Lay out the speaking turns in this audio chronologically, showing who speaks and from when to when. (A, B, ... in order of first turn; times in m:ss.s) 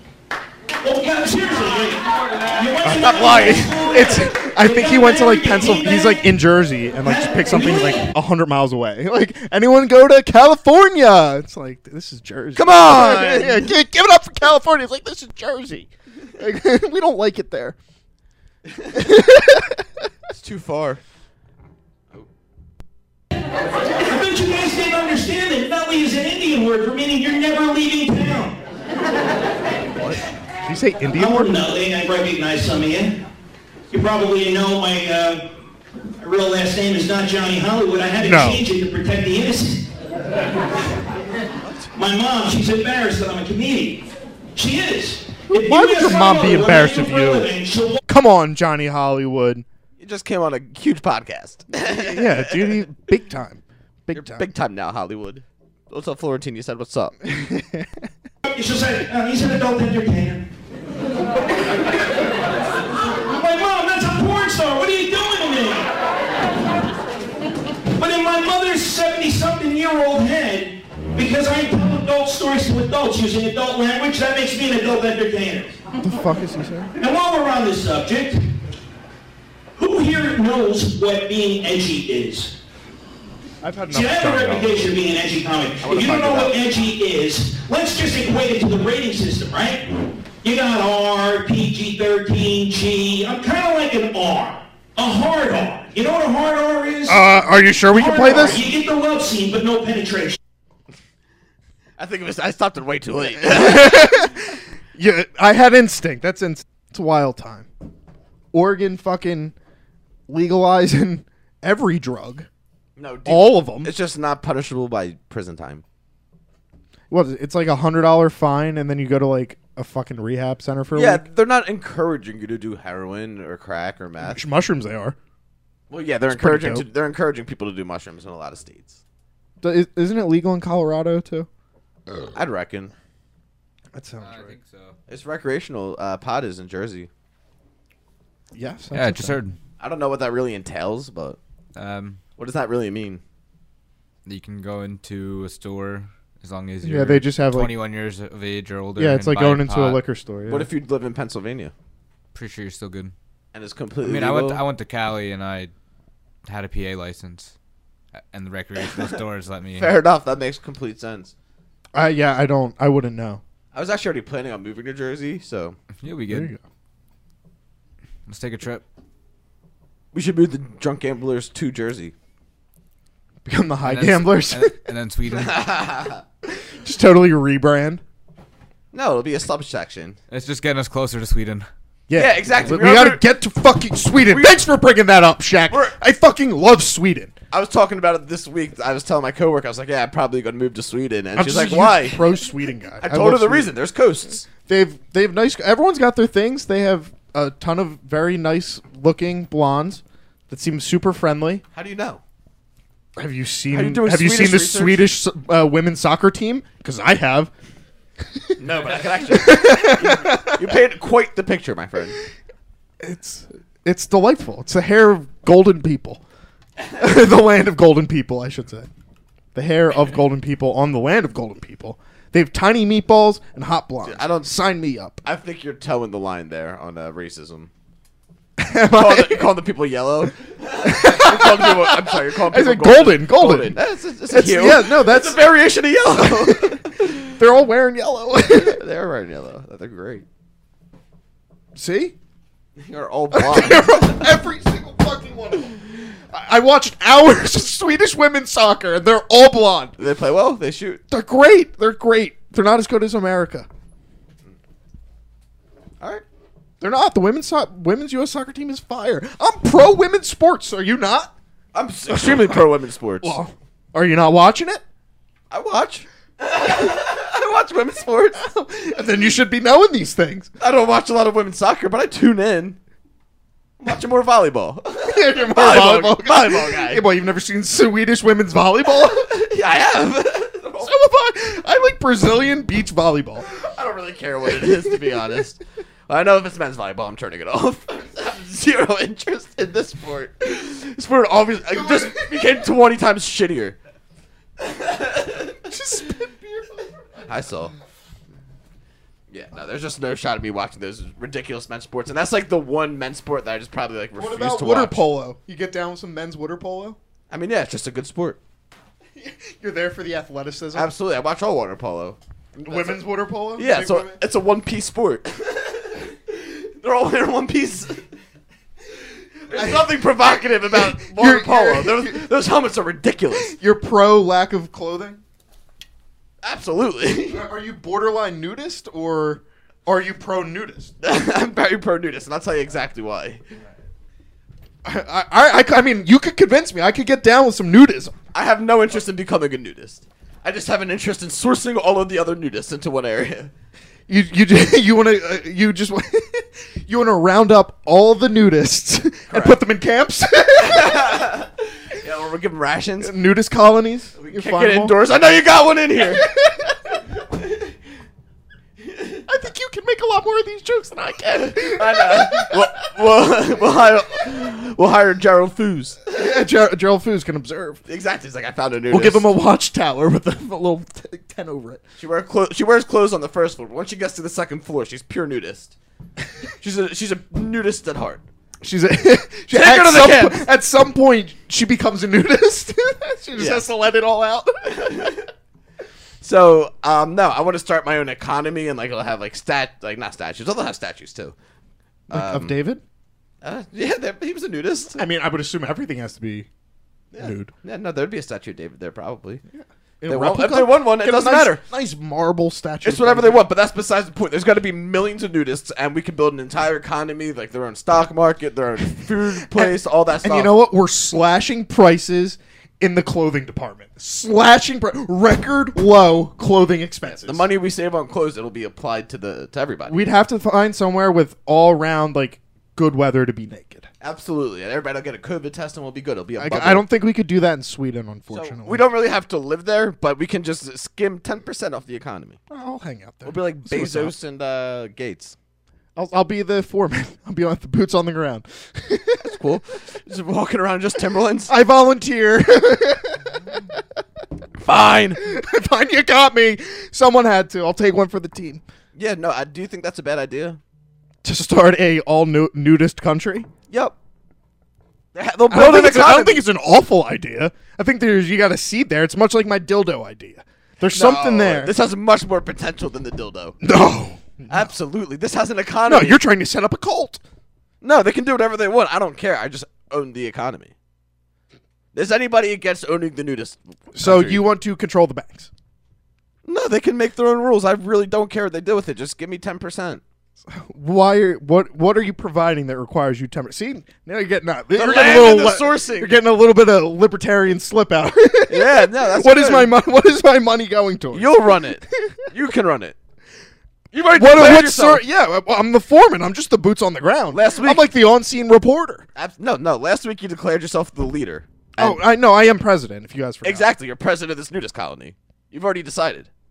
0:00.8-0:06.3 A
0:02.8-0:17.8 B
0:02.9-0:03.8 C
0:07.0-0:08.1 A
0:12.6-0:13.7 C
0:18.7-0:19.0 C
0:18.9-0:19.8 B
0:20.3-0:21.0 C
0:24.0-0:28.6 A
0:30.6-0:31.5 B
0:31.2-0:33.2 A
0:33.9-0:35.5 A
0:36.2-0:39.9 A
0:38.2-0:38.6 B
0:41.9-0:48.0 A
0:45.5-0:47.5 B
0:48.1-0:49.7 B
0:50.0-0:52.9 C
0:51.8-0:54.5 B
0:54.1-0:57.2 C
0:57.2-0:58.1 B
0:58.4-1:00.5 A
1:03.2-1:06.0 A
1:08.0-1:15.8 A
1:16.0-1:16.9 B
1:17.0-1:18.5 A
1:19.8-1:22.5 A
1:23.6-1:25.0 B
1:23.9-1:29.9 A
1:25.8-1:26.7 C
1:30.4-1:37.2 A
1:37.1-1:38.6 B
1:37.9-1:40.4 A
1:42.0-1:44.4 C
1:43.2-1:47.7 B
1:48.5-1:49.6 B
1:50.3-1:52.5 B
1:53.0-1:55.8 C
1:53.3-1:53.9 B
1:57.1-2:01.3 B
2:00.9-2:04.4 C
2:04.2-2:05.2 B
2:05.9-2:09.0 C
2:06.3-2:06.9 B
2:09.6-2:11.5 B
2:12.3-2:12.9 C
2:13.9-2:14.6 B
2:14.2-2:15.0 D
2:15.1-2:17.1 C
2:18.6-2:19.4 B
2:18.9-2:19.6 D
2:19.8-2:21.4 C
2:21.8-2:22.2 D
2:22.4-2:23.2 C
2:24.2-2:30.0 D
2:26.8-2:27.7 B
2:29.0-2:30.7 B
2:30.5-2:31.7 C
2:32.3-2:33.1 D
2:33.5-2:34.6 C
2:34.0-2:35.7 D
2:36.5-2:37.6 D
2:38.2-2:39.9 D
2:39.8-2:41.3 C
2:41.9-2:43.4 B
2:43.7-2:45.8 C
2:46.0-2:46.5 D
2:46.3-2:46.6 B
2:48.3-2:48.8 D
2:50.1-2:52.1 C
2:53.4-2:54.8 B
2:53.8-2:55.7 D
2:55.3-2:56.2 C
2:56.5-2:58.0 B
2:58.9-3:00.2 C
3:00.3-3:01.7 D
3:02.1-3:07.4 B
3:02.2-3:03.2 C
3:04.3-3:04.6 C
3:05.7-3:06.0 C
3:07.5-3:12.2 C
3:11.4-3:13.7 B
3:13.0-3:14.5 C
3:14.6-3:21.6 B
3:21.7-3:22.2 C
3:23.2-3:27.5 B
3:23.7-3:25.1 C
3:28.4-3:30.8 B
3:28.6-3:32.2 C
3:33.0-3:36.2 B
3:37.0-3:38.9 B
3:39.6-3:45.2 B
3:44.0-3:44.6 C
3:45.2-3:47.7 C
3:48.6-3:49.5 B
3:48.9-3:57.2 C
3:50.8-3:53.8 B
3:54.3-3:55.5 B
3:56.1-3:58.8 B
3:58.5-4:00.2 C
4:01.8-4:02.2 B
4:02.8-4:04.3 C
4:03.3-4:05.8 B
4:06.3-4:10.0 B
4:10.0-4:11.0 C
4:11.1-4:13.7 B
4:16.8-4:21.3 B
4:21.7-4:23.4 C
4:22.1-4:22.6 B
4:23.2-4:24.8 B
4:25.5-4:28.4 C
4:28.4-4:30.5 B
4:30.6-4:32.8 C
4:33.8-4:37.1 C
4:35.1-4:39.4 B
4:39.2-4:40.9 C
4:40.8-4:43.5 B
4:43.5-4:53.8 C
4:51.8-4:52.3 B
4:54.6-4:55.6 C
4:55.6-4:56.9 B
4:57.3-4:57.7 C
4:59.3-5:05.0 C
5:04.2-5:07.0 B
5:07.3-5:08.4 C
5:09.2-5:10.9 B
5:10.7-5:13.0 C
5:12.6-5:14.1 B
5:13.6-5:18.0 C
5:19.5-5:23.6 C
5:19.5-5:19.9 B
5:20.7-5:22.3 B
5:23.4-5:25.2 B
5:26.4-5:27.5 C
5:27.3-5:30.9 B
5:31.0-5:33.4 C
5:34.8-5:38.2 B
5:38.3-5:43.5 C
5:44.1-5:51.2 B
5:49.3-5:49.6 C
5:50.6-5:53.2 C
5:53.0-5:55.0 B
5:54.2-5:56.3 C
5:56.1-5:56.7 B
5:57.3-5:57.7 C
5:58.8-5:59.2 C
5:59.3-6:02.7 B
6:01.5-6:06.0 C
6:06.1-6:07.8 B
6:07.9-6:09.3 C
6:08.9-6:11.8 B
6:12.0-6:15.8 C
6:16.6-6:18.2 C
6:18.6-6:25.2 B
6:19.5-6:20.4 C
6:23.4-6:23.7 C
6:24.7-6:25.3 C
6:26.2-6:31.3 C
6:32.1-6:32.5 C
6:32.1-6:32.8 B
6:33.4-6:35.0 C
6:35.0-6:36.5 B
6:37.1-6:39.4 C
6:37.2-6:37.5 B
6:39.5-6:43.4 B
6:40.1-6:41.6 C
6:42.8-6:50.6 C
6:49.4-6:57.5 B
6:57.2-7:00.1 C
6:59.9-7:03.9 B
7:04.0-7:06.8 C
7:06.4-7:08.8 B
7:08.3-7:12.4 C
7:12.5-7:14.2 B
7:13.2-7:15.4 C
7:16.0-7:19.3 B
7:19.2-7:21.6 C
7:21.5-7:23.3 B
7:24.6-7:25.2 C
7:25.2-7:28.6 B
7:29.0-7:30.6 C
7:31.2-7:33.5 B
7:33.7-7:34.0 C
7:35.2-7:36.4 C
7:35.5-7:41.7 B
7:40.9-7:43.6 C
7:43.6-7:44.7 B
7:44.5-7:46.2 C
7:45.8-7:47.2 B
7:47.8-7:50.7 C
7:51.9-7:54.4 C
7:54.0-7:55.5 B
7:56.4-8:00.0 C
8:00.5-8:12.2 B
8:04.8-8:06.2 C
8:08.5-8:09.7 C
8:11.1-8:13.0 C
8:13.9-8:15.0 C
8:14.1-8:19.1 B
8:17.3-8:17.9 C
8:19.2-8:22.0 C
8:21.8-8:23.7 B
8:23.4-8:26.3 C